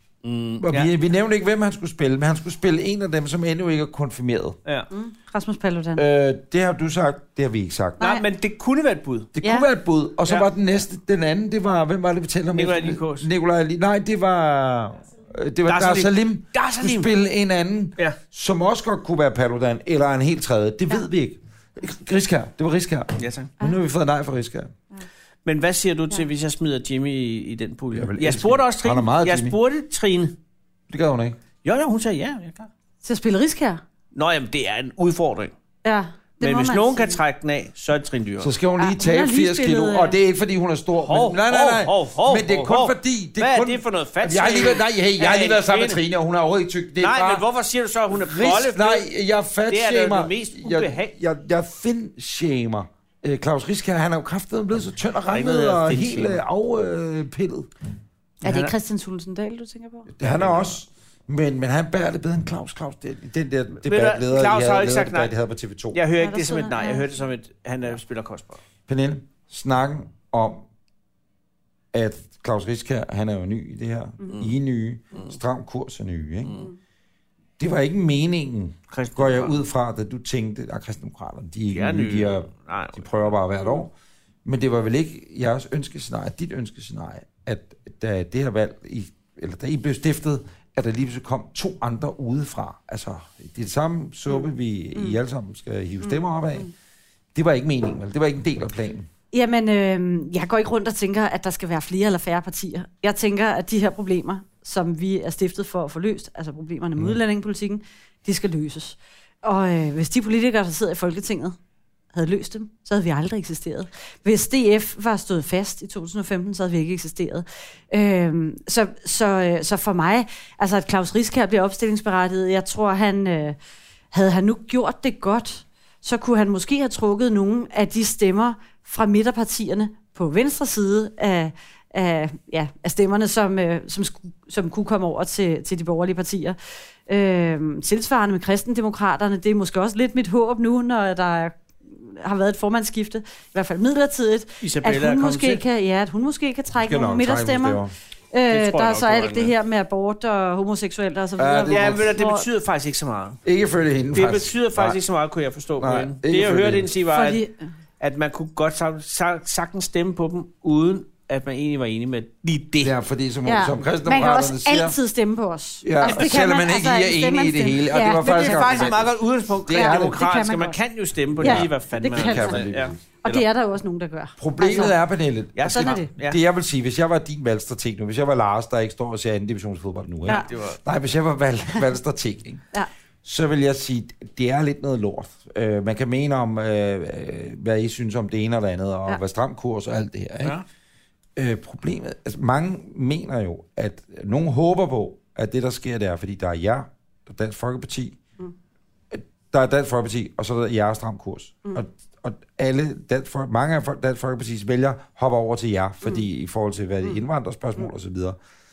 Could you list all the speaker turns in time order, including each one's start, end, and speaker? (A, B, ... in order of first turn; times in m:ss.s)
0:00.2-0:00.9 A
0:00.6-0:04.6 B
0:04.9-0:06.0 C
0:06.0-0:08.1 B
0:08.0-0:09.3 A
0:09.4-0:24.7 B
0:12.5-0:13.3 A
0:15.7-0:17.1 A
0:23.2-0:23.5 A
0:25.4-0:30.3 A
0:27.9-0:29.6 B
0:30.9-0:31.4 B
0:31.6-0:32.7 A
0:33.0-0:33.8 C
0:34.1-0:35.5 A
0:35.8-0:37.2 C
0:36.4-0:38.5 A
0:38.4-0:47.4 B
0:38.8-0:40.2 C
0:41.0-0:46.0 A
0:47.0-0:49.0 A
0:48.1-0:57.7 B
0:49.7-0:51.1 A
0:55.3-0:56.4 A
0:58.4-1:00.1 C
0:58.4-0:58.7 A
1:00.1-1:06.0 B
1:00.2-1:00.7 A
1:03.8-1:05.3 A
1:05.9-1:08.6 A
1:06.2-1:07.1 C
1:08.9-1:10.6 B
1:11.9-1:16.7 B
1:17.6-1:23.9 B
1:18.9-1:19.6 A
1:21.7-1:23.2 A
1:24.4-1:36.7 B
1:37.3-1:39.1 B
1:39.3-1:51.6 C
1:52.1-2:03.6 C
2:04.1-2:27.8 C
2:24.6-2:25.6 A
2:26.8-2:27.9 B
2:28.3-2:32.4 C
2:28.5-2:29.5 A
2:31.4-2:32.1 B
2:31.7-2:33.4 A
2:33.4-2:35.0 B
2:34.1-2:37.4 A
2:35.8-2:36.9 B
2:37.1-2:37.6 C
2:38.0-2:42.9 A
2:42.8-2:44.9 B
2:43.4-2:48.9 C
2:45.8-2:50.2 B
2:46.0-2:46.4 A
2:47.9-2:53.4 A
2:49.7-2:50.8 C
2:51.4-2:53.0 B
2:51.4-2:52.6 C
2:53.2-2:55.0 C
2:54.4-3:02.6 B
2:55.6-2:56.4 A
2:55.7-2:56.1 C
3:00.2-3:00.8 A
3:03.2-3:10.6 B
3:11.4-3:18.2 B
3:19.1-3:28.4 B